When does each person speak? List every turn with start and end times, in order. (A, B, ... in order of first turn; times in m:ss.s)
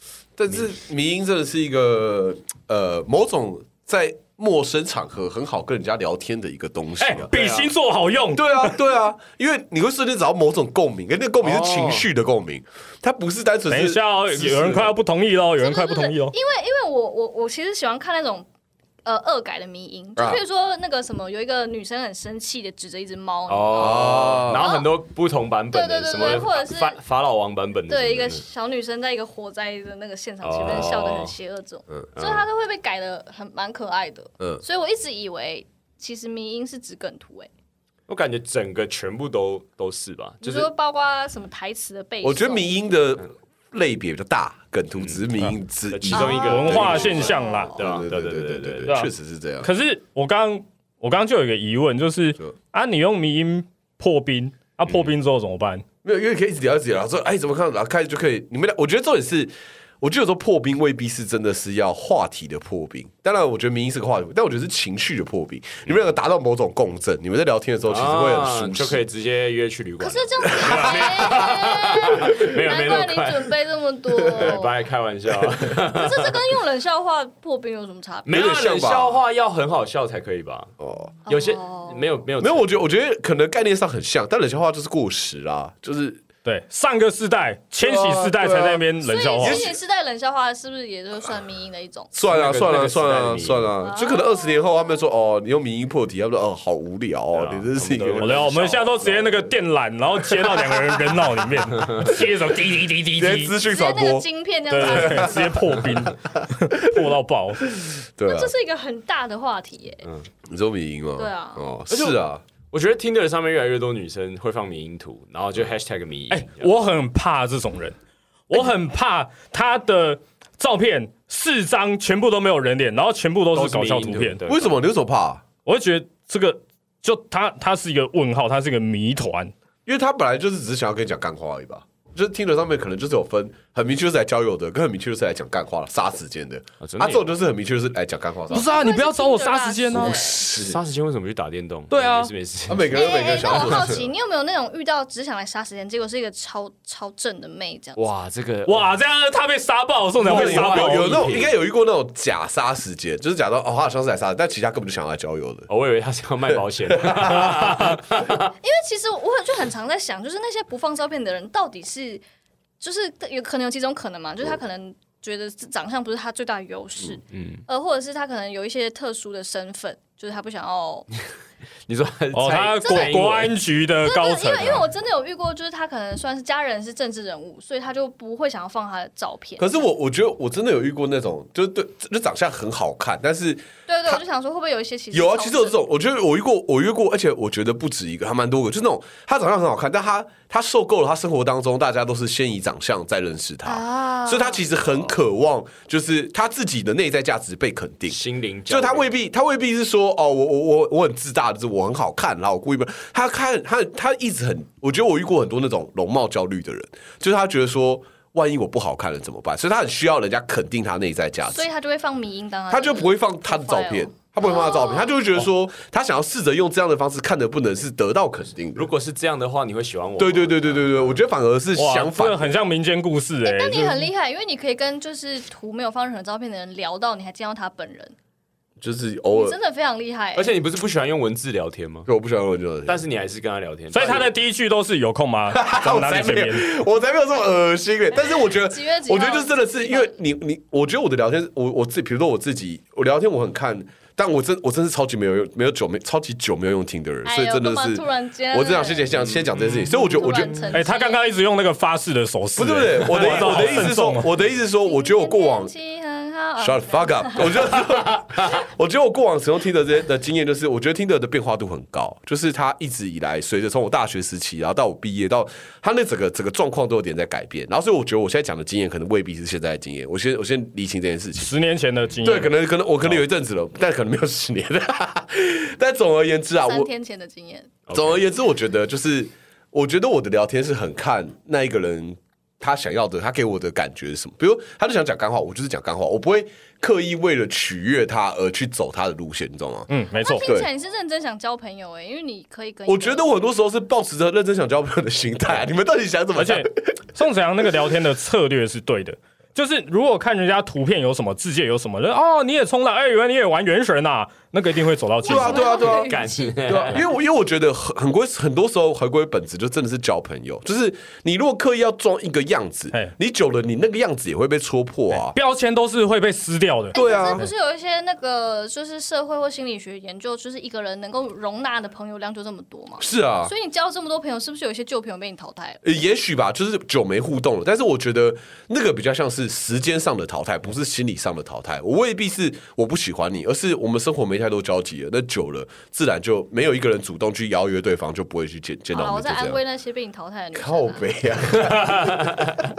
0:00.4-0:07.3 A
0:07.0-0:08.8 B
0:07.3-0:07.7 C
0:08.3-0:15.0 A
0:11.4-0:12.1 C
0:13.7-0:16.4 B
0:15.6-0:18.5 D
0:19.0-0:25.0 D
0:20.2-0:20.4 A
0:23.5-0:28.4 C
0:23.7-0:24.7 A
0:25.7-0:27.0 D
0:27.9-0:37.5 D
0:30.4-0:31.3 C
0:32.2-0:32.4 C
0:38.1-0:40.7 C
0:40.4-0:42.8 D
0:42.2-0:49.7 A
0:45.0-0:45.2 C
0:45.9-0:49.0 C
0:46.1-0:47.7 D
0:46.4-0:47.7 B
0:49.6-0:55.8 B
0:56.0-1:09.0 A
1:07.9-1:13.5 C
1:10.0-1:14.8 D
1:10.5-1:11.5 A
1:14.3-1:14.5 A
1:14.3-1:16.4 C
1:15.7-1:18.5 D
1:18.3-1:20.7 C
1:18.3-1:19.2 A
1:20.8-1:21.1 A
1:21.3-1:22.0 D
1:21.3-1:22.8 C
1:22.4-1:26.2 A
1:26.4-1:29.7 B
1:27.8-1:29.8 A
1:29.0-1:32.1 D
1:32.1-1:39.5 A
1:32.3-1:33.7 C
1:33.8-1:34.9 D
1:37.3-1:39.1 C
1:38.2-1:43.5 B
1:40.3-1:41.2 A
1:43.2-1:46.3 A
1:43.6-1:45.5 D
1:44.7-1:47.6 B
1:47.7-1:48.5 A
1:48.2-1:50.0 D
1:50.5-1:52.4 A
1:51.2-1:51.7 D
1:51.9-1:56.7 C
1:56.3-1:58.0 B
1:58.5-2:04.4 B
2:03.5-2:04.8 C
2:04.5-2:05.4 A
2:05.6-2:09.5 B
2:09.9-2:18.8 A
2:16.8-2:17.3 C
2:18.5-2:20.2 B
2:18.5-2:20.4 D
2:19.9-2:20.8 A
2:20.5-2:24.0 C
2:21.9-2:22.3 B
2:22.7-2:24.1 A
2:22.9-2:28.0 D
2:28.0-2:28.9 C
2:28.7-2:31.3 B
2:30.2-2:31.6 C
2:30.2-2:35.7 A
2:35.7-2:38.5 C
2:36.9-2:37.6 A
2:38.6-2:42.2 D
2:42.8-2:51.1 D
2:47.3-2:47.6 C
2:51.9-2:53.6 C
2:52.3-2:54.8 B
2:52.8-2:53.2 D
2:54.0-2:59.7 D
2:59.6-3:04.2 A
3:03.9-3:05.8 D
3:05.1-3:31.7 A
3:13.6-3:14.6 D
3:18.1-3:19.1 C
3:31.5-3:35.2 D
3:32.7-3:38.9 A
3:38.8-3:41.2 C
3:40.2-3:42.6 A
3:41.8-3:44.1 B
3:43.4-3:48.1 D
3:48.8-3:49.6 A
3:49.3-3:50.6 D
3:50.4-3:52.1 C
3:52.1-3:53.0 A
3:52.9-3:54.3 C
3:53.9-3:56.7 B
3:55.5-4:10.7 A
3:58.4-4:00.1 D
4:07.2-4:09.2 D
4:09.2-4:10.7 C
4:09.8-4:11.3 D
4:10.7-4:14.3 B
4:12.6-4:15.7 A
4:13.1-4:13.9 C
4:14.8-4:17.7 D
4:16.6-4:31.5 A
4:18.1-4:18.5 C
4:31.4-4:32.6 B
4:32.2-4:36.9 A
4:36.6-4:37.7 D
4:37.9-4:38.2 C
4:37.9-4:49.9 A
4:49.9-4:50.5 B
4:50.2-4:53.3 D
4:50.4-4:50.7 A
4:52.9-4:57.0 A
4:56.4-5:05.9 B
5:05.2-5:06.6 D
5:05.2-5:15.4 A
5:06.0-5:07.1 C
5:15.1-5:17.4 B
5:16.9-5:25.8 D
5:16.9-5:17.5 A
5:23.0-5:23.5 A
5:25.8-5:39.6 A
5:38.9-5:41.2 D
5:40.5-5:42.4 A
5:41.6-5:42.6 C